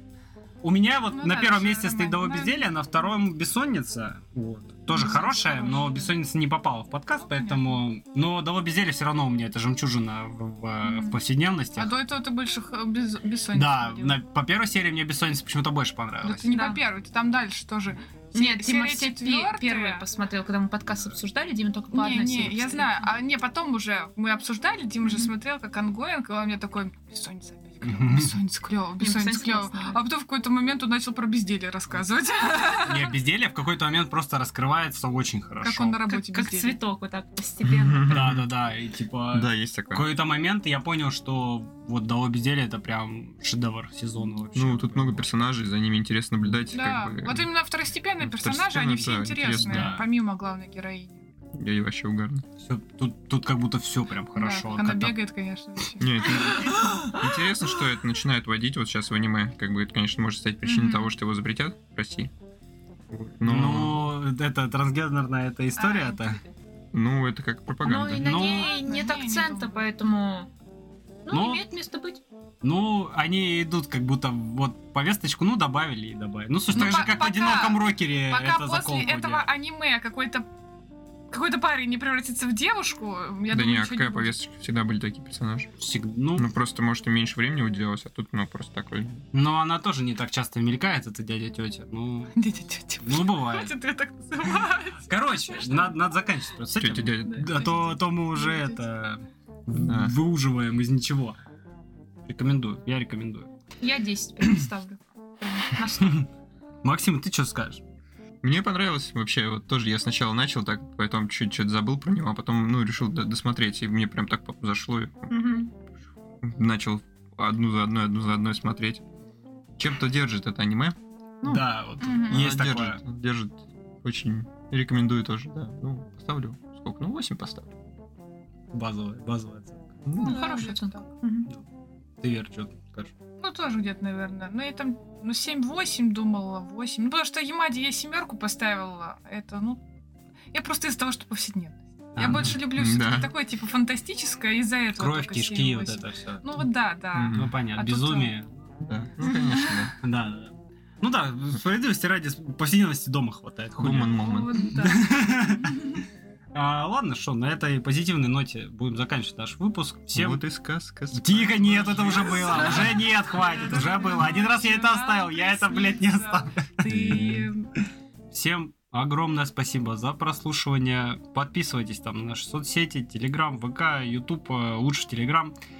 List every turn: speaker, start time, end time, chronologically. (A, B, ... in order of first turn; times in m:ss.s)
0:00.6-0:11.9 A
0:01.1-0:02.8 B
0:04.9-0:06.1 B
0:07.2-0:07.8 B
0:10.8-0:11.2 B
0:11.8-0:14.2 B
0:13.5-0:16.6 A
0:16.2-0:20.0 B
0:16.5-0:16.8 C
0:18.3-0:23.0 C
0:21.9-0:33.1 B
0:25.0-0:25.3 C
0:27.8-0:28.3 A
0:29.0-0:30.0 C
0:32.8-0:36.0 A
0:35.6-0:36.8 B
0:36.1-0:38.1 C
0:37.6-0:38.5 D
0:38.1-0:45.3 A
0:39.3-0:40.1 D
0:44.5-0:47.5 D
0:46.7-0:51.2 B
0:48.2-0:49.9 D
0:49.6-0:50.0 A
0:51.5-0:52.4 D
0:52.6-0:55.2 A
0:54.3-0:56.2 B
0:56.0-1:02.3 D
1:00.6-1:01.1 C
1:03.1-1:04.1 D
1:03.4-1:06.4 A
1:05.8-1:06.4 C
1:06.9-1:08.3 D
1:07.8-1:10.5 C
1:08.2-1:08.8 A
1:08.2-1:09.8 B
1:11.2-1:12.2 C
1:11.3-1:11.6 A
1:12.6-1:19.5 A
1:16.7-1:20.4 B
1:21.3-1:24.3 B
1:23.5-1:25.7 D
1:25.8-1:26.5 A
1:26.3-1:29.2 D
1:29.3-1:32.3 A
1:32.4-1:36.0 B
1:33.0-1:33.7 A
1:35.1-1:41.4 A
1:36.8-1:37.7 D
1:37.3-1:38.8 B
1:39.7-1:40.1 D
1:42.3-1:43.5 A
1:43.8-1:46.2 C
1:46.0-1:46.2 A
1:46.8-1:47.8 A
1:48.4-1:55.5 D
1:55.3-1:55.7 C
1:56.4-1:59.0 D
1:59.8-2:01.6 D
2:01.4-2:03.0 A
2:02.0-2:02.4 B
2:02.2-2:07.7 D
2:08.7-2:10.0 A
2:10.0-2:10.4 D
2:10.1-2:11.1 B
2:10.2-2:11.5 C
2:12.2-2:13.1 A
2:13.4-2:19.8 B
2:20.5-2:28.3 B
2:22.2-2:22.6 A
2:22.3-2:23.3 D
2:24.9-2:26.6 A
2:27.1-2:27.5 D
2:27.3-2:28.5 A
2:28.8-2:29.9 D
2:29.3-2:29.8 B
2:30.0-2:34.2 A
2:33.8-2:34.6 D
2:34.1-2:35.7 B
2:34.8-2:35.8 A
2:36.5-2:40.4 A
2:40.1-2:43.0 D
2:41.1-2:47.5 A
2:43.3-2:47.7 B
2:48.3-2:55.5 A